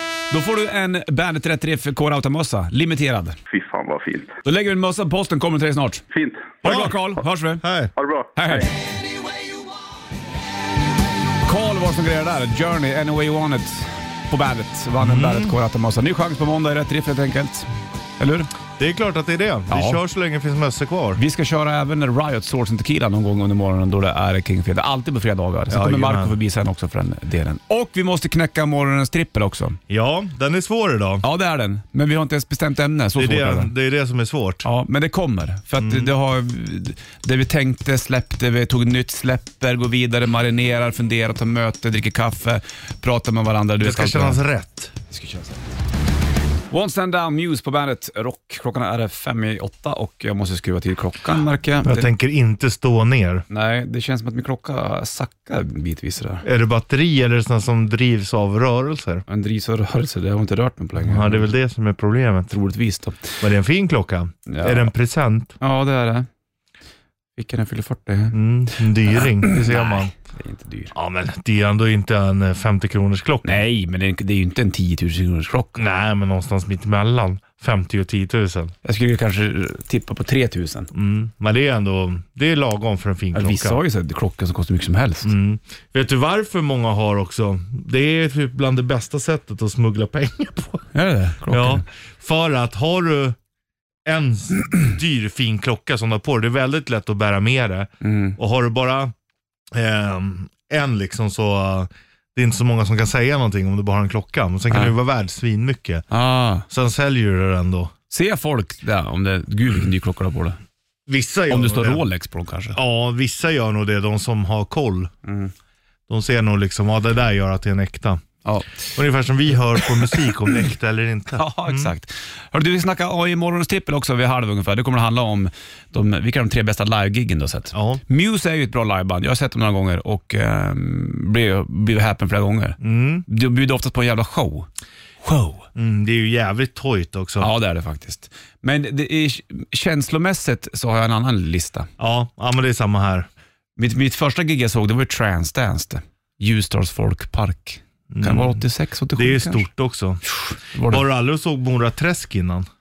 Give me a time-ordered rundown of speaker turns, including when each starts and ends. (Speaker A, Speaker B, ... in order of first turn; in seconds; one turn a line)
Speaker A: 0.3-3.4
Speaker B: 3.5-4.3
Speaker A: 4.4-6.0
Speaker B: 6.1-6.8
Speaker A: 6.6-7.6
Speaker C: 6.6-6.9
Speaker C: 7.6-7.9
Speaker B: 8.0-8.7
Speaker A: 8.3-8.7
Speaker A: 11.4-18.5
Speaker C: 15.0-15.6
Speaker C: 18.8-21.2
Speaker A: 19.7-20.0
Speaker A: 21.1-29.8
Speaker C: 25.7-26.4
Speaker C: 29.9-31.2
Speaker A: 31.2-33.7
Speaker C: 33.1-34.6
Speaker A: 34.6-44.4
Speaker C: 35.8-36.1
Speaker C: 43.8-44.9
Speaker A: 45.1-45.6
Speaker A: 46.7-52.1
Speaker C: 51.8-53.4
Speaker A: 53.5-56.4
Speaker C: 56.4-59.2
Speaker A: 59.3-61.5
Speaker C: 61.0-62.5
Speaker A: 62.5-63.4
Speaker C: 63.4-65.5
Speaker A: 64.5-64.9
Speaker A: 65.6-66.3
Speaker A: 67.4-68.3
Speaker C: 68.3-70.1
Speaker A: 69.1-70.9
Speaker C: 70.9-73.6
Speaker A: 73.4-75.8
Speaker C: 75.8-78.7
Speaker A: 78.8-80.9
Speaker C: 80.9-83.8
Speaker A: 83.3-85.3
Speaker C: 85.2-90.8
Speaker A: 90.9-91.8
Speaker C: 91.5-93.4
Speaker C: 94.0-99.1
Speaker A: 98.0-98.4
Speaker C: 99.7-106.0
Speaker A: 106.1-106.7
Speaker C: 106.7-107.9
Speaker A: 108.1-110.6
Speaker C: 111.1-112.0
Speaker A: 111.5-112.8
Speaker C: 112.7-115.1
Speaker A: 115.2-115.5
Speaker C: 116.1-118.2
Speaker A: 118.4-118.8
Speaker C: 118.9-121.9
Speaker A: 119.8-120.2
Speaker A: 121.4-134.7
Speaker C: 127.7-128.0
Speaker C: 132.8-133.2
Speaker A: 135.3-135.6
Speaker C: 135.6-137.5
Speaker A: 137.4-141.9
Speaker C: 142.0-143.3
Speaker A: 143.8-149.7
Speaker C: 148.1-148.6
Speaker C: 149.1-150.2
Speaker A: 150.3-151.0
Speaker C: 150.8-152.7